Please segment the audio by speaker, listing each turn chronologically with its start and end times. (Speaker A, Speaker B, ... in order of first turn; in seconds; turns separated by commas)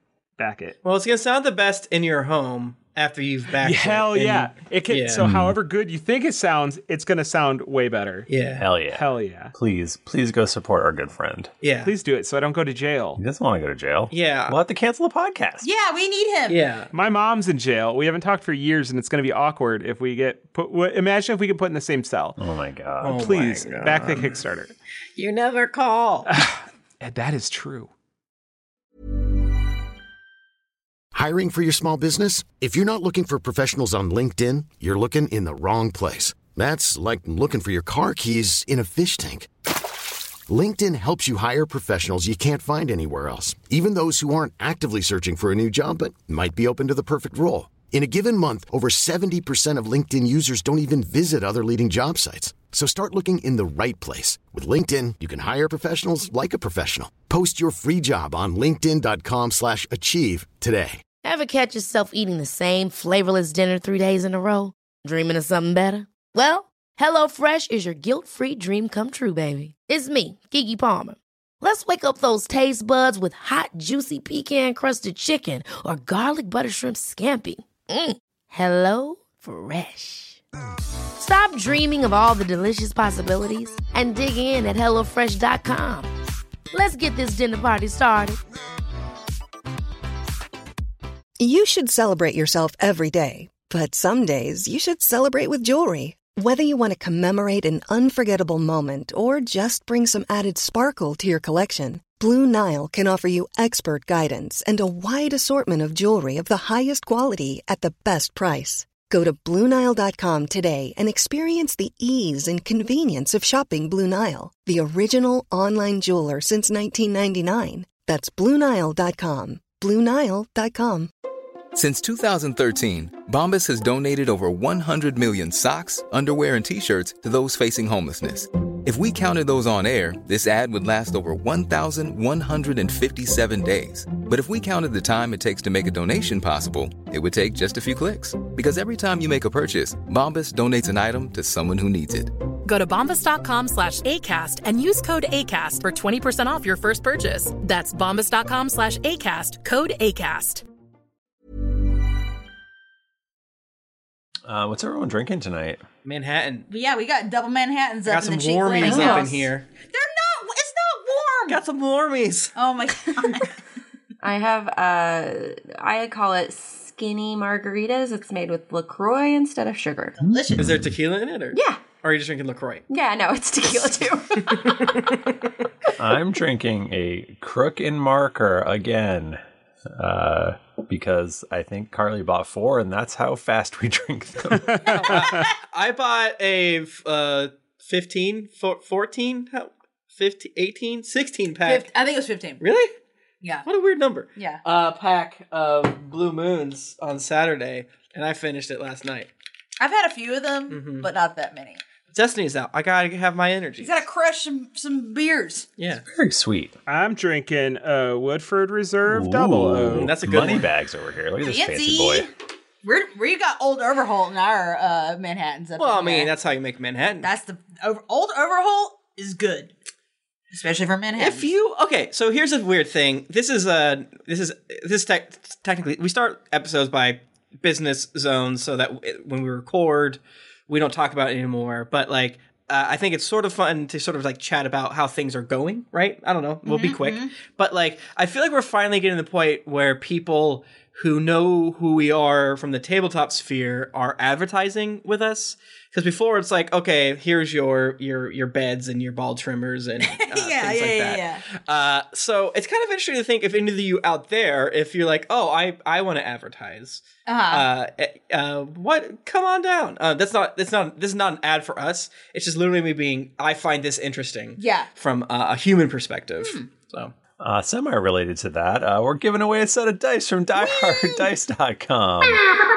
Speaker A: 0.4-0.8, Speaker B: 0.8-5.3, Speaker A: 3.6-8.3, Speaker C: 5.2-5.5, Speaker B: 8.3-8.6, Speaker C: 8.6-11.5, Speaker A: 8.9-9.5, Speaker B: 11.6-11.9, Speaker A: 11.8-13.2, Speaker C: 13.2-15.7, Speaker B: 14.1-14.6, Speaker D: 15.6-16.6, Speaker B: 16.5-16.9, Speaker A: 16.9-22.4, Speaker C: 22.4-23.2, Speaker B: 23.0-24.4, Speaker A: 23.1-24.7, Speaker B: 25.2-26.2, Speaker A: 26.2-27.9, Speaker E: 31.1-39.5, Speaker E: 40.5-61.0, Speaker F: 61.2-80.4, Speaker F: 81.2-86.1, Speaker F: 86.7-88.4, Speaker G: 91.4-121.1, Speaker H: 121.7-142.3, Speaker I: 142.6-150.6, Speaker C: 154.4-155.8, Speaker B: 156.0-156.7, Speaker D: 156.7-159.4, Speaker B: 158.1-159.7, Speaker J: 158.8-159.5, Speaker D: 159.9-161.6, Speaker B: 161.5-162.5, Speaker D: 162.5-163.5, Speaker J: 164.2-170.2, Speaker D: 170.2-170.7, Speaker B: 170.5-172.8, Speaker J: 171.5-171.8, Speaker J: 172.9-175.0, Speaker B: 174.6-175.2, Speaker C: 176.0-179.4, Speaker C: 179.9-185.1, Speaker A: 184.5-185.4, Speaker B: 184.9-191.9, Speaker D: 191.6-192.6, Speaker B: 192.6-192.9, Speaker B: 193.6-199.3, Speaker D: 194.3-194.6, Speaker D: 199.8-201.8, Speaker B: 200.7-201.1, Speaker B: 202.1-204.0, Speaker D: 203.8-205.7, Speaker B: 205.8-206.0, Speaker C: 206.1-206.7, Speaker A: 206.9-210.1, Speaker C: 209.1-212.2, Speaker B: 209.9-210.7, Speaker D: 211.4-212.3, Speaker D: 212.8-216.3, Speaker B: 215.8-217.3, Speaker D: 217.2-219.7, Speaker D: 220.5-221.5, Speaker B: 221.2-267.1, Speaker D: 236.7-237.3, Speaker D: 250.1-251.4, Speaker D: 257.2-257.7, Speaker D: 264.6-264.9, Speaker D: 266.4-266.7, Speaker C: 267.4-272.4, Speaker D: 270.6-271.2